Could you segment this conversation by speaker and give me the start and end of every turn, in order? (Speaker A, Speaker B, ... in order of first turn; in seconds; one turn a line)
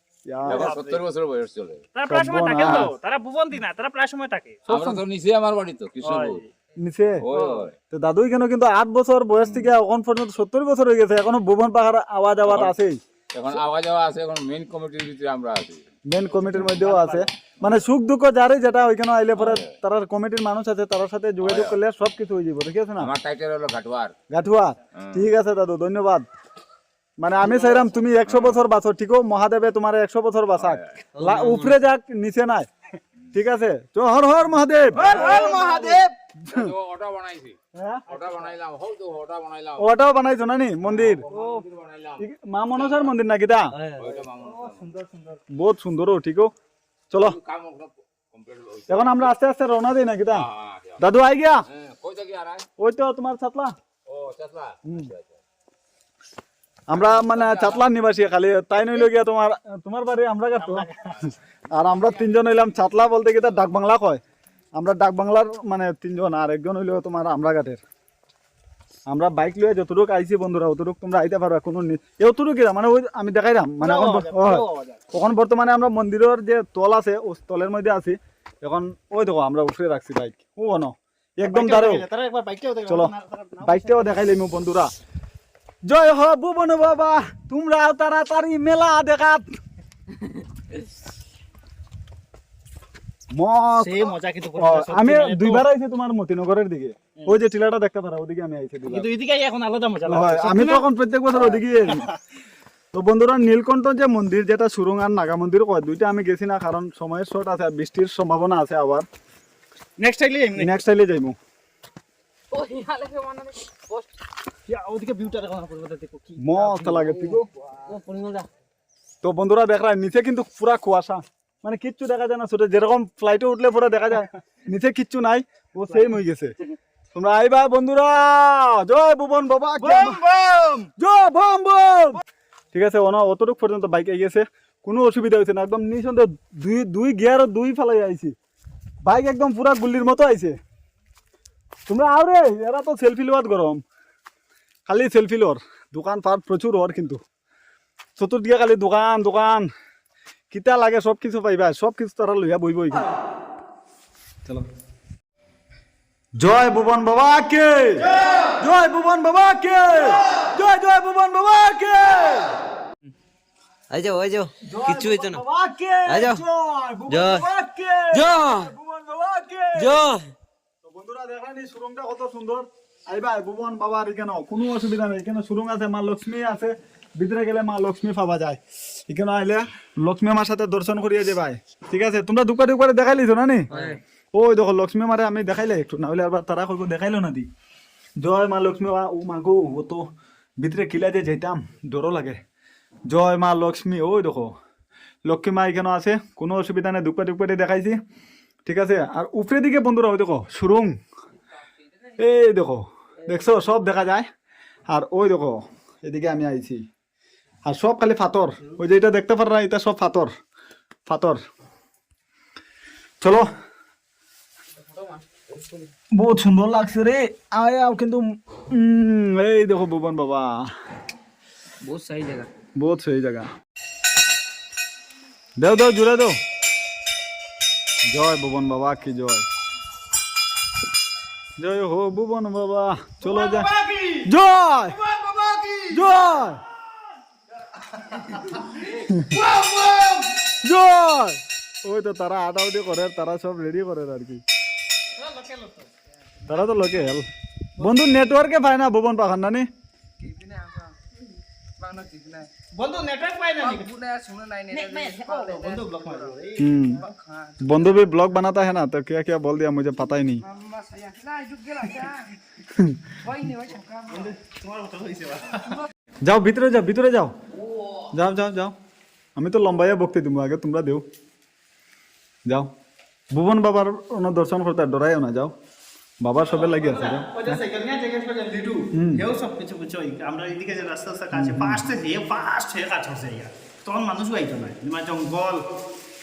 Speaker A: 0.3-0.7
Speaker B: 0.5-1.9
Speaker C: 0.5-1.0
Speaker C: 1.9-5.0
Speaker A: 2.1-2.9
Speaker B: 2.5-2.9
Speaker B: 4.7-6.4
Speaker C: 6.0-6.5
Speaker A: 6.8-7.2
Speaker B: 7.2-7.8
Speaker C: 7.3-7.6
Speaker A: 7.9-13.0
Speaker B: 9.4-9.7
Speaker B: 12.4-12.8
Speaker B: 13.3-17.7
Speaker A: 16.1-23.1
Speaker B: 19.4-19.7
Speaker B: 21.4-21.8
Speaker B: 23.0-24.1
Speaker A: 24.3-26.3
Speaker B: 25.0-25.3
Speaker A: 27.2-32.7
Speaker B: 27.5-28.6
Speaker B: 30.6-31.6
Speaker A: 33.3-36.7
Speaker B: 34.9-37.6
Speaker C: 35.2-35.9
Speaker A: 37.7-38.1
Speaker B: 38.1-39.9
Speaker C: 38.1-38.5
Speaker A: 39.8-41.2
Speaker B: 40.9-43.1
Speaker C: 41.3-41.6
Speaker A: 42.2-43.7
Speaker D: 43.7-44.1
Speaker B: 44.0-45.0
Speaker C: 44.4-45.4
Speaker A: 45.5-46.5
Speaker A: 47.1-47.4
Speaker B: 47.1-49.3
Speaker A: 48.9-50.5
Speaker B: 50.4-51.0
Speaker A: 51.0-51.6
Speaker B: 51.7-52.7
Speaker A: 52.8-53.7
Speaker B: 54.1-55.4
Speaker A: 54.9-55.1
Speaker A: 56.9-64.2
Speaker B: 56.9-57.8
Speaker C: 60.6-61.2
Speaker B: 61.8-62.2
Speaker A: 64.8-67.8
Speaker A: 69.1-82.0
Speaker C: 73.8-75.0
Speaker C: 81.4-84.4
Speaker A: 82.9-83.1
Speaker A: 83.6-84.9
Speaker A: 85.9-89.5
Speaker A: 93.3-99.1
Speaker C: 93.8-95.7
Speaker C: 98.9-100.8
Speaker A: 100.1-102.1
Speaker C: 101.4-102.2
Speaker A: 102.9-109.1
Speaker C: 110.0-110.8
Speaker A: 110.6-111.4
Speaker E: 112.5-114.1
Speaker C: 114.7-117.1
Speaker A: 116.4-117.5
Speaker E: 117.1-118.5
Speaker A: 119.2-126.5
Speaker A: 127.1-130.2
Speaker A: 131.0-132.2
Speaker A: 132.7-138.3
Speaker A: 139.0-140.6
Speaker A: 141.9-143.8
Speaker A: 144.9-147.2
Speaker A: 148.2-149.7
Speaker A: 150.5-153.1
Speaker A: 156.4-162.6
Speaker D: 163.9-165.4
Speaker A: 164.6-170.0
Speaker D: 166.1-166.4
Speaker D: 167.1-167.4
Speaker D: 168.1-168.7
Speaker D: 169.8-170.3
Speaker A: 170.8-183.7
Speaker D: 183.7-184.0
Speaker A: 184.3-187.5
Speaker A: 188.2-190.0
Speaker A: 190.6-192.4
Speaker A: 193.1-194.6
Speaker A: 195.2-198.0
Speaker A: 198.7-201.0
Speaker A: 202.2-204.3
Speaker A: 204.9-206.8
Speaker A: 207.7-210.3
Speaker A: 211.1-211.4
Speaker A: 213.2-213.5
Speaker A: 216.1-220.7
Speaker E: 221.8-222.5
Speaker A: 222.8-223.5
Speaker A: 225.6-226.4
Speaker A: 228.1-229.4
Speaker A: 231.6-233.7
Speaker C: 233.8-234.1
Speaker E: 233.9-234.1
Speaker A: 234.2-235.0
Speaker E: 235.1-235.8
Speaker A: 235.9-236.6
Speaker A: 238.9-239.5
Speaker E: 239.5-240.2
Speaker A: 240.6-244.4
Speaker C: 245.1-245.9
Speaker A: 246.5-247.2
Speaker C: 247.8-248.2
Speaker A: 247.8-249.7
Speaker E: 250.2-250.9
Speaker E: 251.8-252.5
Speaker C: 252.7-254.0
Speaker E: 253.6-256.3
Speaker C: 254.7-256.7
Speaker A: 256.6-257.1
Speaker A: 257.6-260.5
Speaker E: 260.5-262.3
Speaker A: 262.7-263.2
Speaker E: 263.2-264.3
Speaker C: 264.1-265.8
Speaker A: 266.2-267.3
Speaker A: 268.1-268.7
Speaker A: 269.4-271.0
Speaker A: 273.3-275.5
Speaker A: 276.2-277.6
Speaker C: 276.4-285.6
Speaker A: 278.9-279.2
Speaker A: 281.3-281.8